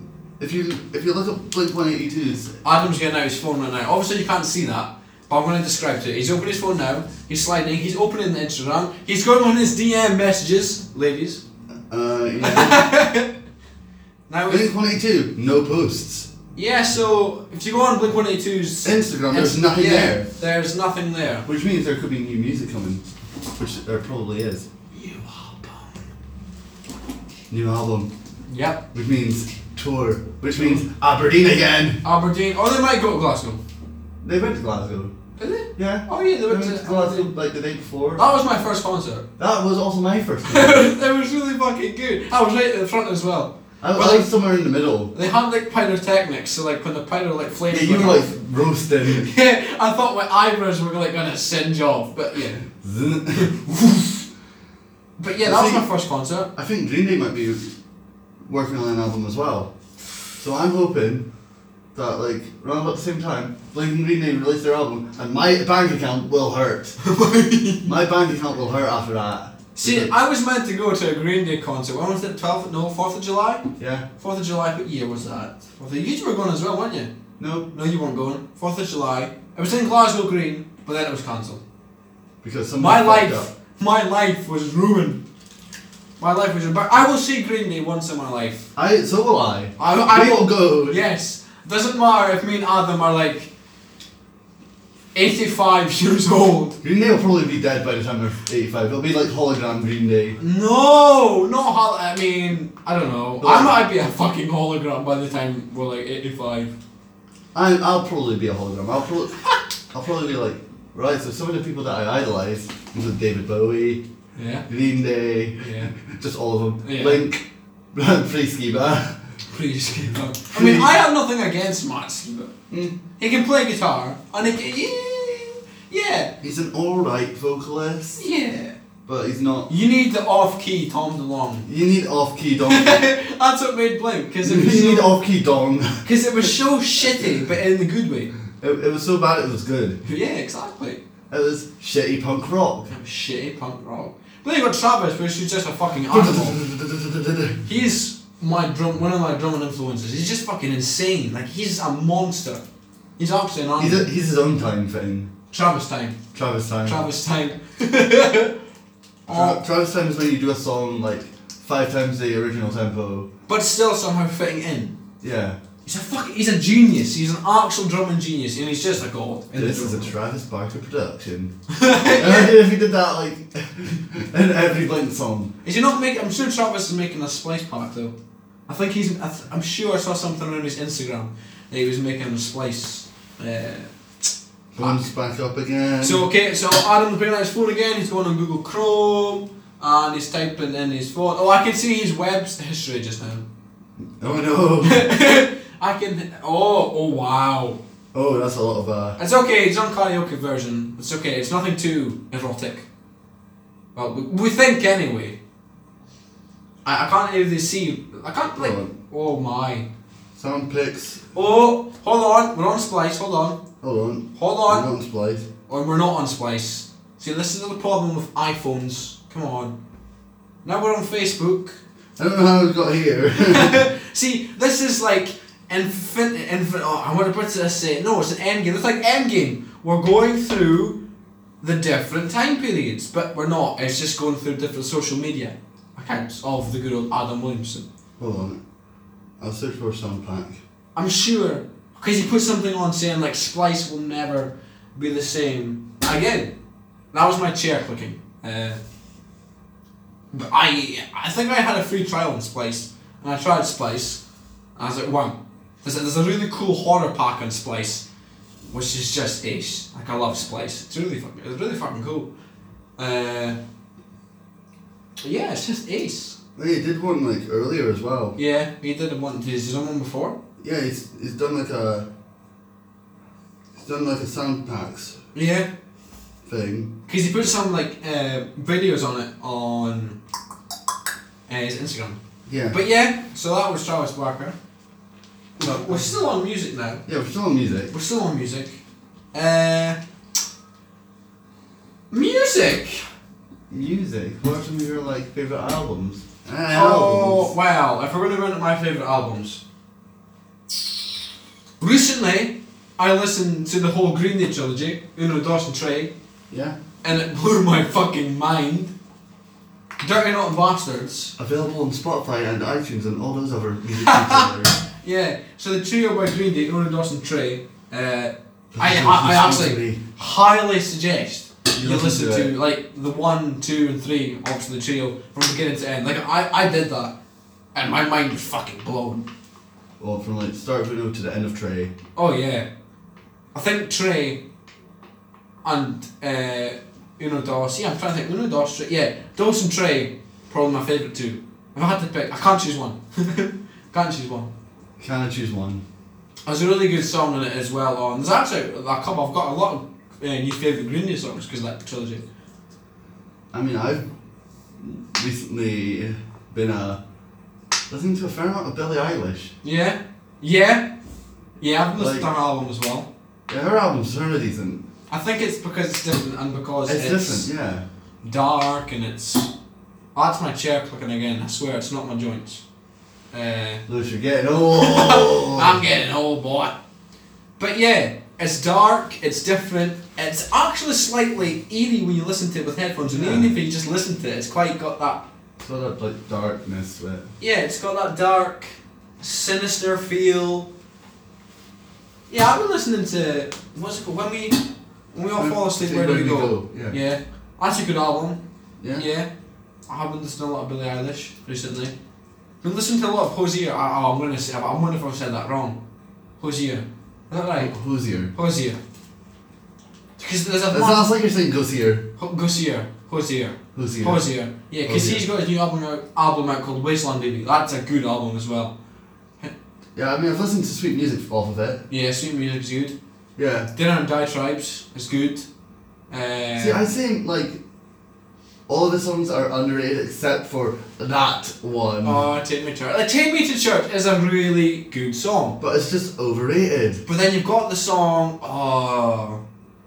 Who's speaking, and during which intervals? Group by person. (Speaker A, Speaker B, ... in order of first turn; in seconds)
Speaker A: 0.4-2.5, 11.9-12.9, 14.5-16.3, 18.8-20.3, 21.5-23.1, 23.6-24.7, 27.5-28.1, 28.9-32.0, 34.2-35.1, 35.8-38.3, 39.4-40.9, 43.8-45.1, 47.7-49.3, 52.8-53.5, 55.4-55.9, 56.5-57.7, 58.5-59.7, 60.4-61.2, 61.9-67.0, 67.9-70.1, 73.8-74.0, 77.4-77.7, 82.4-83.5, 88.8-91.0, 96.8-100.4, 103.4-103.8, 107.5-114.0, 114.7-119.2, 120.5-120.9, 122.7-123.0, 126.4-128.2, 129.1-129.7, 131.7-133.1, 134.4-136.0, 138.6-140.0, 141.3-142.9, 146.1-147.6, 153.8-155.3, 156.3-157.0, 159.3-163.3, 165.2-165.6, 169.5-171.5, 172.1-175.5, 184.7-186.3, 194.2-195.1, 198.1-199.2, 208.6-208.9, 210.4-211.2, 213.8-215.4, 222.2-223.8, 238.2-238.6, 239.4-240.6, 266.6-268.4, 270.6-272.1, 273.8-275.2, 276.4-276.9, 282.5-282.8, 285.6-286.1, 287.1-287.9, 293.7-297.5, 306.5-306.8, 311.4-314.8, 318.7-320.0, 321.8-322.5, 330.0-331.9, 345.0-345.8, 353.5-354.0, 354.8-357.0, 357.9-359.5, 361.9-362.3, 363.5-364.8, 366.9-367.9, 373.9-375.8, 383.1-383.5, 385.6-387.3, 395.4-397.0, 398.8-399.1, 407.6-408.3, 410.7-412.0, 413.8-414.3, 414.9-415.3, 419.9-421.8, 423.4-423.7, 426.6-427.6, 428.7-432.2, 435.6-437.0
Speaker B: 2.6-11.4, 12.4-13.3, 14.3-14.7, 16.6-21.4, 24.9-26.0, 28.5-28.8, 30.6-30.8, 32.0-33.6, 35.4-37.3, 38.2-39.2, 40.5-44.3, 45.1-48.3, 49.1-52.6, 53.4-54.2, 55.2-56.5, 67.0-67.9, 69.8-73.6, 74.2-77.1, 77.7-81.6, 82.8-85.2, 86.2-88.7, 89.8-93.5, 95.2-96.8, 100.4-106.7, 114.4-114.7, 115.6-115.9, 116.8-117.2, 119.5-122.5, 123.2-126.3, 128.2-128.8, 129.7-131.7, 132.7-135.2, 136.0-138.3, 140.0-141.0, 142.9-146.6, 147.7-152.6, 153.2-154.1, 155.5-156.2, 156.8-158.5, 159.3-159.6, 163.5-164.9, 165.8-170.1, 171.7-172.5, 175.6-178.1, 178.7-183.9, 184.8-185.1, 186.0-193.4, 194.8-197.8, 199.2-202.9, 203.9-205.4, 206.8-209.8, 211.3-213.6, 214.3-214.9, 215.7-219.7, 220.6-221.8, 223.4-231.0, 231.6-237.9, 240.9-246.5, 247.1-248.8, 250.3-254.2, 254.8-258.0, 258.7-262.3, 263.0-263.6, 265.2-266.4, 268.4-270.4, 275.3-275.7, 277.1-280.2, 281.5-282.2, 282.7-284.6, 285.6-287.0, 287.9-288.8, 289.3-290.0, 292.1-293.0, 296.7-299.6, 301.8-306.1, 307.0-308.9, 310.0-311.3, 314.0-327.1, 327.8-329.2, 332.1-332.7, 333.5-334.4, 335.6-344.5, 346.5-352.2, 359.6-360.9, 361.6-363.1, 365.1-367.5, 368.2-369.5, 370.1-372.6, 373.3-373.8, 374.7-376.8, 377.6-385.2, 387.4-390.7, 392.3-394.6, 395.1-398.4, 399.0-399.3, 399.9-401.9, 402.6-405.8, 406.4-407.7, 408.3-408.8, 410.2-411.1, 412.2-418.7, 421.9-422.9, 423.7-425.5, 426.1-426.9, 432.0-435.6, 437.1-439.4